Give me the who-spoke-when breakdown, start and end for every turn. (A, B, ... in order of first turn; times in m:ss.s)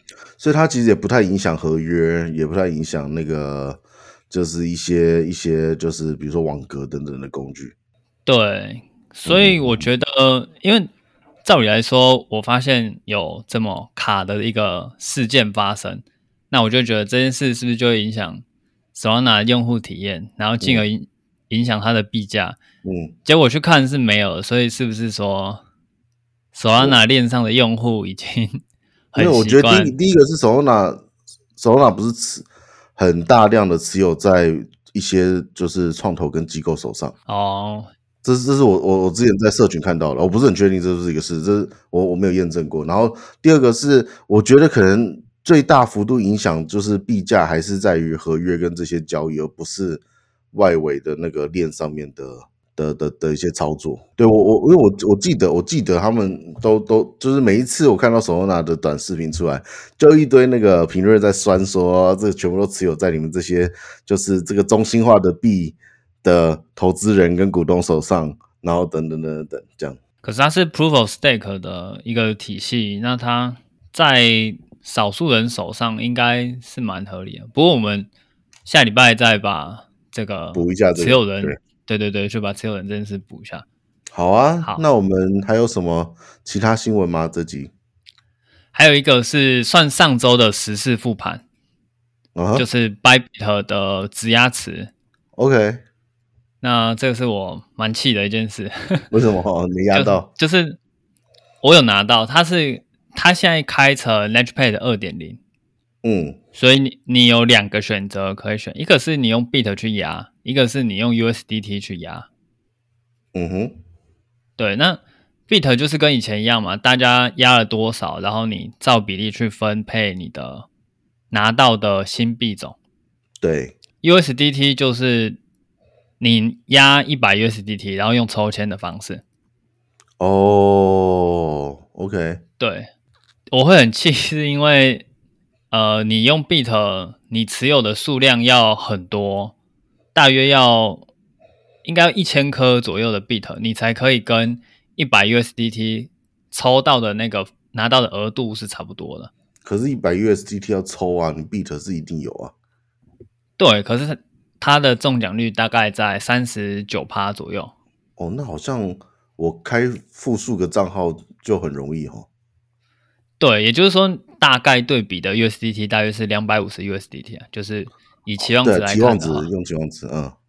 0:00.4-0:07.7 A
0:08.2-0:10.9 B
0:09.2-0:09.9 A
0:11.4-0:18.4 B
0:18.9-0:22.6 B
0:22.8-0:23.1 A
0:23.2-0:25.6 B
0:26.5-0:28.6 B
0:29.1-0:29.9 B
0:29.2-0:31.0 A
0:31.6-0:37.1 A
0:37.3-0:37.9 B
0:38.2-1:10.0 A
1:10.2-1:18.1 B
1:18.6-1:23.6 B
1:20.5-1:21.6 A
1:24.1-1:27.7 A
1:28.7-1:31.4 B
1:32.3-1:32.6 A
1:32.5-1:34.9 B
1:35.4-1:35.8 A
1:36.6-1:39.1 B
1:39.1-1:40.3 A
1:39.9-1:40.8 B
1:41.6-1:45.4 B
1:46.0-1:46.4 A
1:46.5-1:52.3 B
1:53.3-1:53.7 A
1:54.6-2:00.7 B
2:01.3-2:02.8 B
2:03.4-2:03.7 A
2:04.0-2:05.4 B
2:06.2-2:09.2 B
2:10.2-2:12.4 A
2:12.6-2:12.9 B
2:13.5-2:15.0 B
2:15.7-2:19.5 B
2:20.1-2:21.1 B
2:21.8-2:29.3 B
2:29.6-2:32.5 A
2:33.6-2:37.7 B
2:38.2-2:42.2 A
2:43.4-2:49.5 B
2:48.6-2:50.3 A